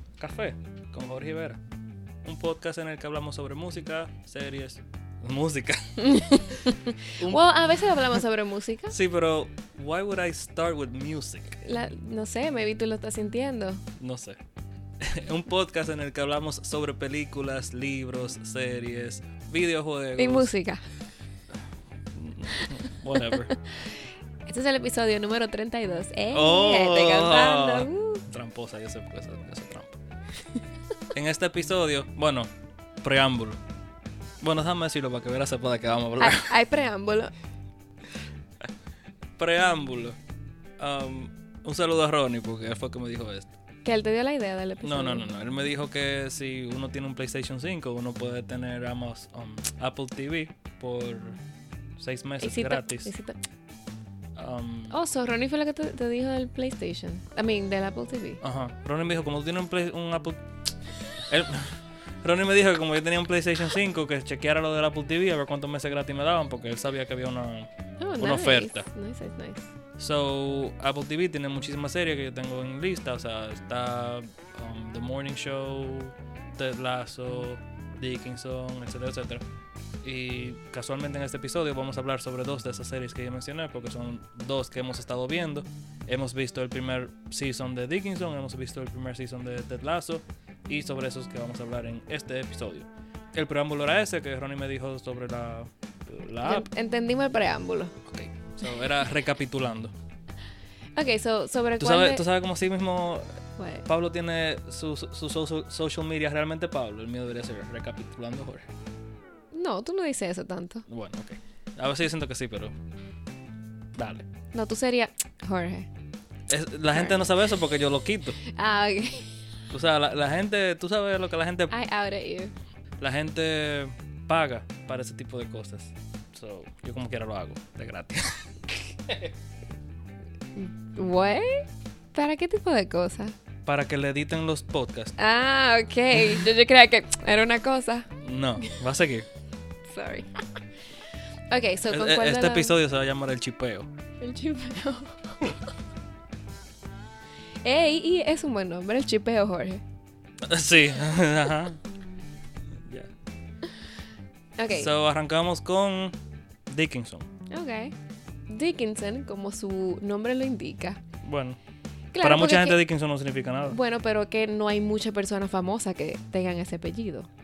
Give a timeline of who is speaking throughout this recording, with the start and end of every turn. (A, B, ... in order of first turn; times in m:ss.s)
0:00.2-0:01.6 A
0:02.2-0:06.6 A
0:06.0-0:08.9 B
0:07.2-0:07.4 A
0:08.9-0:11.6 A
0:11.6-0:13.8 B
0:14.0-0:14.4 A
0:15.0-0:20.5 A
0:20.2-0:20.8 B
0:22.1-0:23.6 A
0:23.2-0:28.2 B
0:26.3-0:30.0 A
0:31.1-0:32.5 A
0:33.0-0:33.6 A
0:34.4-0:36.6 A
0:36.2-0:37.3 B
0:39.4-0:40.2 A
0:40.8-0:43.5 A
0:43.8-0:45.3 B
0:44.8-0:51.4 A
0:52.0-0:53.1 A
0:52.4-0:53.4 B
0:54.4-0:55.0 A
0:54.9-0:58.4 B
0:58.4-1:00.4 A
1:01.2-1:08.9 A
1:08.0-1:09.7 B
1:10.0-1:19.4 A
1:20.0-1:36.7 A
1:36.4-1:37.9 B
1:38.0-1:39.9 A
1:40.9-1:42.2 B
1:41.8-1:43.3 A
1:43.6-1:43.9 B
1:43.8-1:48.7 A
1:49.5-1:50.8 B
1:50.9-1:52.7 A
1:53.9-1:54.2 A
1:54.5-1:55.9 B
1:56.5-1:58.4 A
1:56.9-1:57.3 B
1:58.4-1:59.4 B
1:59.7-2:01.8 A
2:01.7-2:02.5 B
2:03.0-2:09.3 A
2:10.6-2:13.3 B
2:13.6-2:15.1 A
2:15.2-2:18.1 B
2:18.2-2:19.3 A
2:19.8-2:20.4 B
2:21.5-2:22.8 B
2:21.8-2:23.9 A
2:24.2-2:25.7 B
2:27.6-2:29.8 B
2:30.4-2:31.8 A
2:32.8-2:33.1 A
2:34.6-2:34.9 B
2:34.7-2:36.2 A
2:36.7-2:37.3 A
2:37.5-2:37.9 B
2:38.5-2:41.0 B
2:41.2-2:41.6 A
2:42.1-2:42.8 B
2:42.2-2:43.8 A
2:43.7-2:47.3 B